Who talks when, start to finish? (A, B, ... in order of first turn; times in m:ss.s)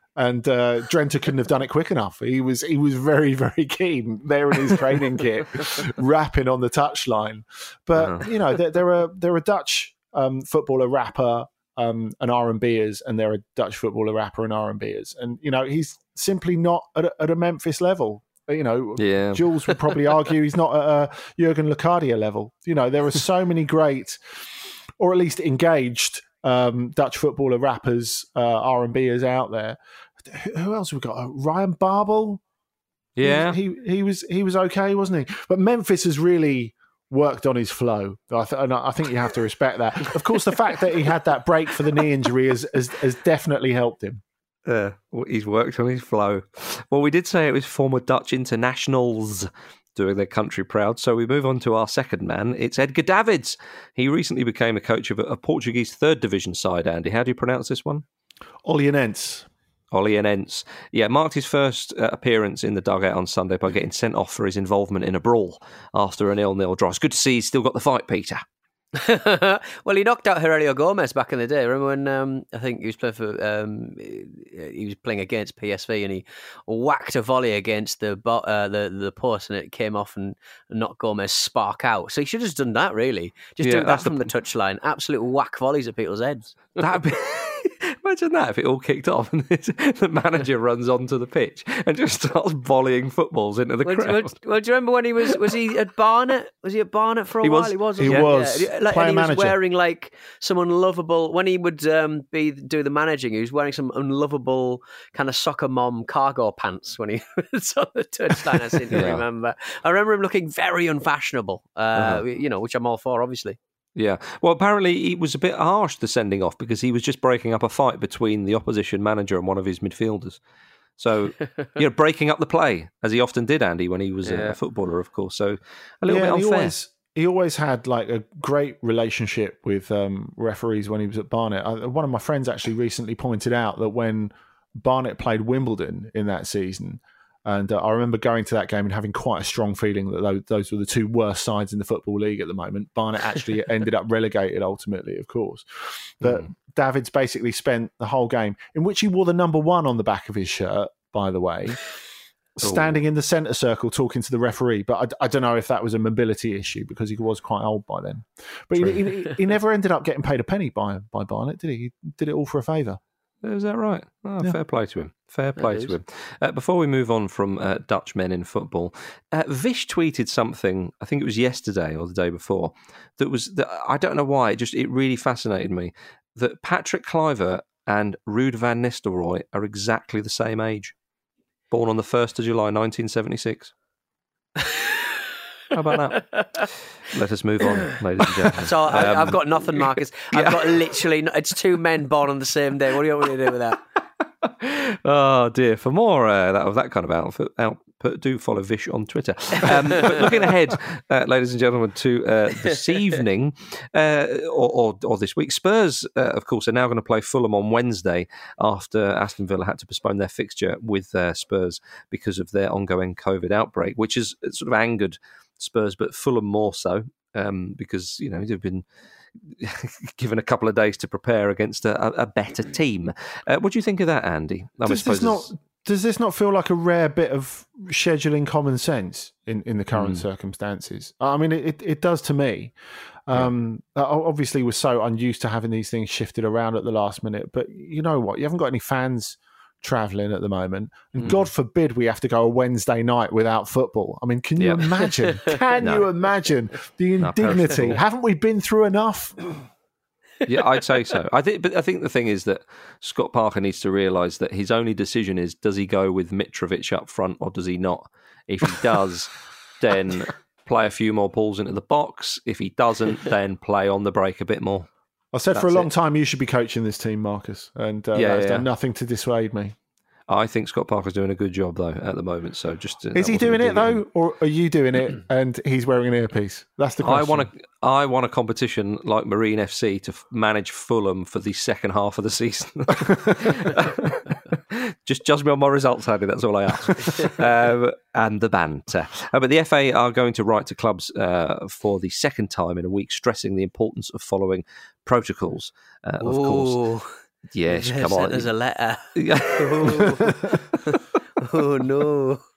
0:00.2-0:24.2 A
0:08.0-0:08.2 B
0:19.0-0:19.5 B
0:25.0-0:32.4 A
0:33.2-0:33.6 B
0:33.2-0:44.2 A
0:44.7-0:58.0 B
0:58.6-0:59.5 A
0:59.9-1:08.4 B
1:09.0-1:26.6 C
1:23.6-1:24.3 B
1:26.8-1:34.4 B
1:33.8-1:53.6 C
1:37.4-1:38.3 B
1:38.0-1:39.6 A
1:48.9-1:49.2 B
1:52.0-1:52.2 B
1:54.0-2:00.4 B
2:01.0-2:06.7 B
2:04.2-2:04.6 C
2:06.1-2:31.9 A
2:32.6-2:43.0 A
2:32.6-2:33.0 B
2:43.4-3:01.0 B
2:45.6-2:45.9 C
3:01.7-3:03.7 B
3:05.7-3:11.0 B
3:06.2-3:06.6 C
3:08.5-3:13.8 C
3:14.4-3:38.8 B
3:19.7-3:20.2 C
3:39.4-3:45.5 B
3:44.8-3:52.8 A
3:50.0-3:50.2 B
3:53.3-4:09.5 A
4:01.2-4:01.5 B
4:04.6-4:04.9 B
4:05.8-4:06.1 B
4:07.2-4:08.0 B
4:10.4-4:24.9 B
4:25.3-4:29.8 A
4:25.5-4:25.9 B
4:28.1-4:28.7 B
4:30.3-4:34.0 B
4:33.1-4:37.5 A
4:37.0-4:56.8 B
4:56.2-4:57.1 C
4:57.5-4:58.5 B
4:57.7-5:02.4 C
4:59.2-5:00.4 B